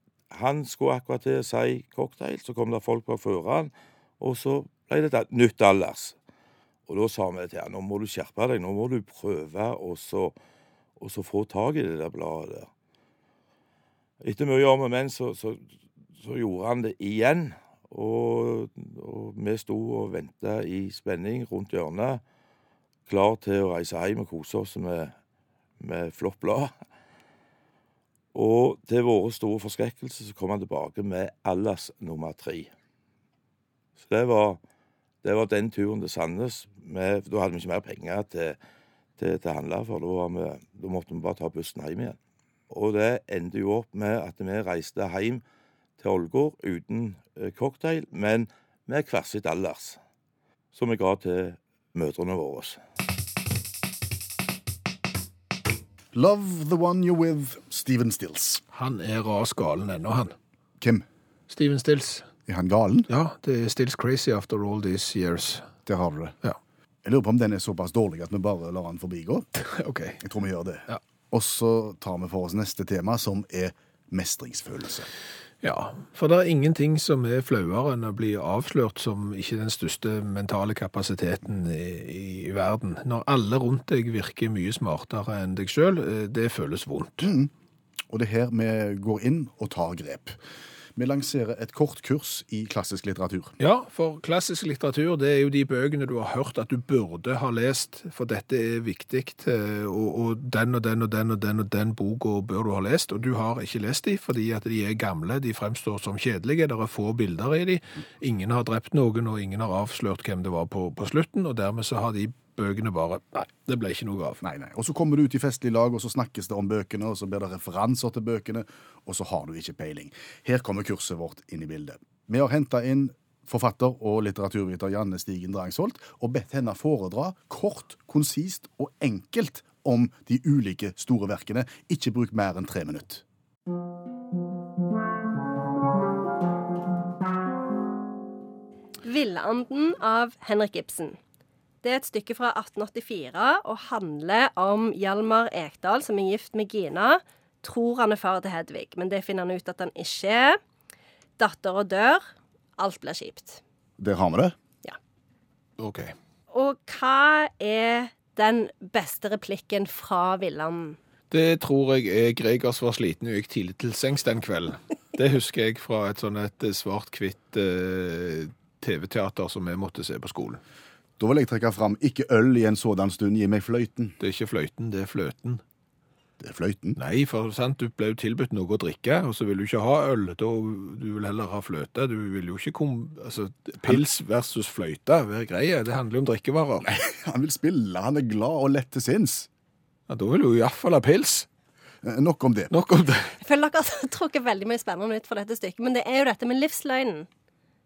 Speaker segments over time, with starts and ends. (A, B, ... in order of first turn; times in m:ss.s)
0:00.3-0:06.2 A
0:06.9-0:10.4 A
0:11.0-0:12.7 A
0:14.2-0:15.6 A
0:16.2-0:22.2 A
0:23.1-0:25.1 A
0:25.8-0:26.7 A
0:28.3-0:32.7 A
0:34.0-0:34.6 A
0:35.2-0:38.6 A
0:39.2-0:42.2 A
0:42.7-0:45.4 A
0:46.0-0:50.0 A
0:50.7-0:52.8 A
0:56.1-0:58.6 B
0:58.7-1:00.4 C
1:00.8-1:01.1 B
1:01.5-1:02.3 C
1:02.5-1:03.1 B
1:03.1-1:05.7 C
1:05.9-1:06.4 B
1:07.0-1:09.5 B
1:09.6-1:10.2 C
1:10.2-1:15.1 B
1:15.6-1:27.3 C
1:27.2-1:27.5 B
1:28.1-1:30.4 B
1:31.0-1:33.6 B
1:33.6-1:54.4 C
1:54.4-2:13.2 B
2:19.0-2:21.2 D
2:21.8-2:30.6 D
2:31.4-2:32.2 D
2:32.8-2:33.6 D
2:34.0-2:34.6 B
2:35.8-2:36.1 C
2:36.5-2:41.0 D
2:41.3-2:50.6 C
2:51.2-2:54.2 B
2:54.2-2:55.6 C
2:56.4-2:57.0 B
2:57.0-3:06.9 C
3:06.8-3:09.5 B
3:10.1-3:11.5 C
3:12.0-3:12.7 B
3:12.7-3:13.4 C
3:13.4-3:17.3 D